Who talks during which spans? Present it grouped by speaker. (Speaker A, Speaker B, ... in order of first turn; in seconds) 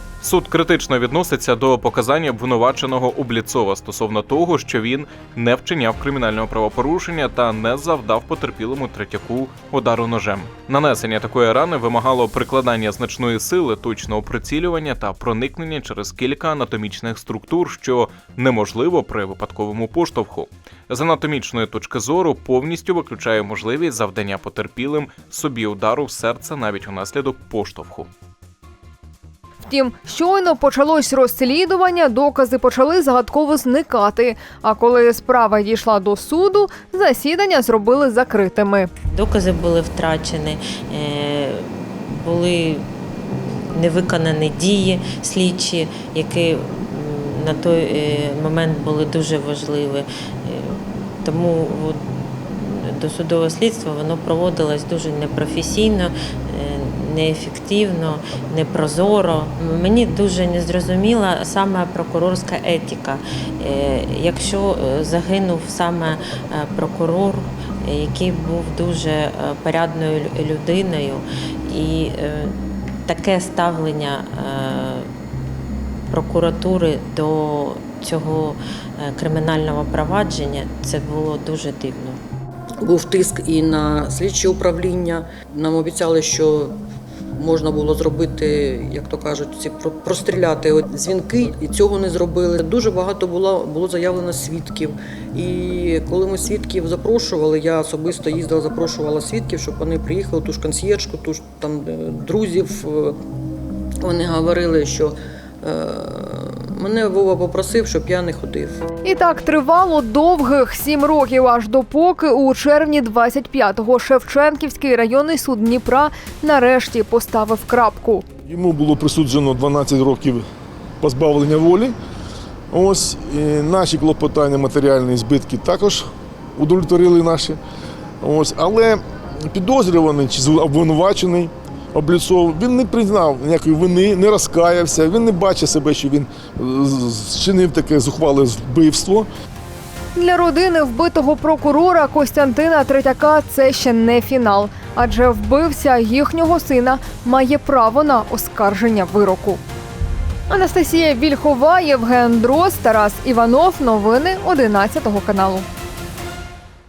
Speaker A: 0.2-28.1
Speaker B: 29.7-38.9, 109.0-118.2, 140.1-149.6, 150.5-155.7
Speaker C: 39.1-75.1, 76.1-82.2
Speaker D: 82.8-86.8, 87.4-103.2, 104.0-108.8
Speaker E: 118.5-120.4, 121.0-121.9, 122.7-127.6, 128.2-139.3